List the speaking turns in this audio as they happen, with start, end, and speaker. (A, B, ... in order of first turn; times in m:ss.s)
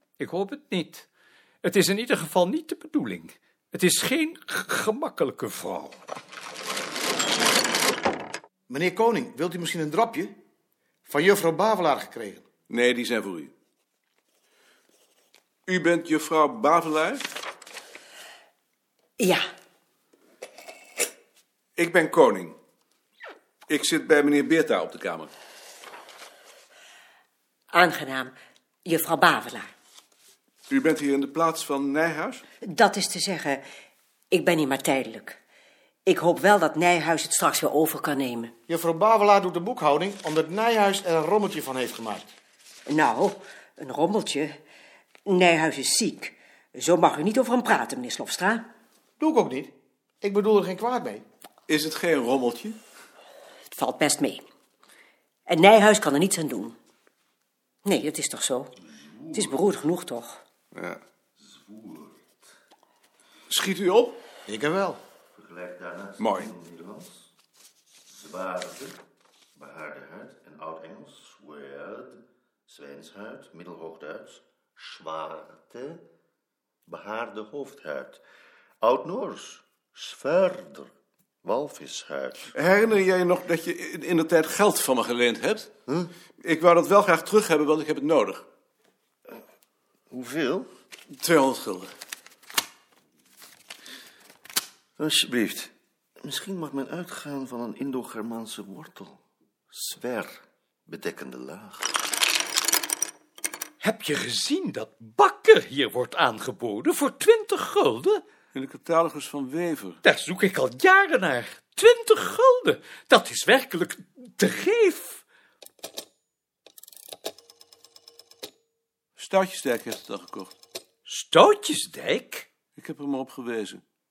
0:00.2-0:01.1 A
0:01.6-0:06.0 A
0:08.7-0:10.4 B
0:11.1-0:12.4 B
0:12.7-0:13.5 C
0:15.7-0:17.2 C
0:19.2-0:19.5 D
0:21.8-0:22.6 C
0:23.7-0:25.3 C
0:27.7-0:29.7 D
0:30.7-0:32.4 C
0:32.6-0:33.7 D
0:34.3-0:35.4 D
0:36.0-0:38.5 D
0:38.7-0:42.3 B
0:42.9-0:44.6 D
0:45.3-0:48.7 D
0:49.2-0:51.2 B
0:51.7-0:52.8 C
0:53.7-0:54.5 D
0:55.5-0:56.8 D
0:57.8-0:58.8 D
0:59.0-0:59.5 E
0:59.3-1:00.4 D
1:00.7-1:01.0 C
1:01.4-1:02.2 E
1:03.5-1:04.2 C
1:04.5-1:05.0 B
1:05.3-1:07.3 E
1:06.2-1:06.5 C
1:08.1-1:09.0 E
1:09.6-1:16.0 E
1:16.9-1:18.2 E
1:18.8-1:20.9 E
1:21.4-1:22.5 E
1:22.5-1:25.7 C
1:25.9-1:26.1 E
1:26.4-1:28.5 C
1:30.1-1:30.7 E
1:31.2-1:31.9 C
1:35.0-1:39.2 E
1:39.7-1:42.0 E
1:43.8-1:48.2 A
1:48.5-1:50.0 C
1:50.0-1:55.2 A
1:59.2-2:00.5 C
2:01.1-2:02.5 A
2:02.8-2:03.8 C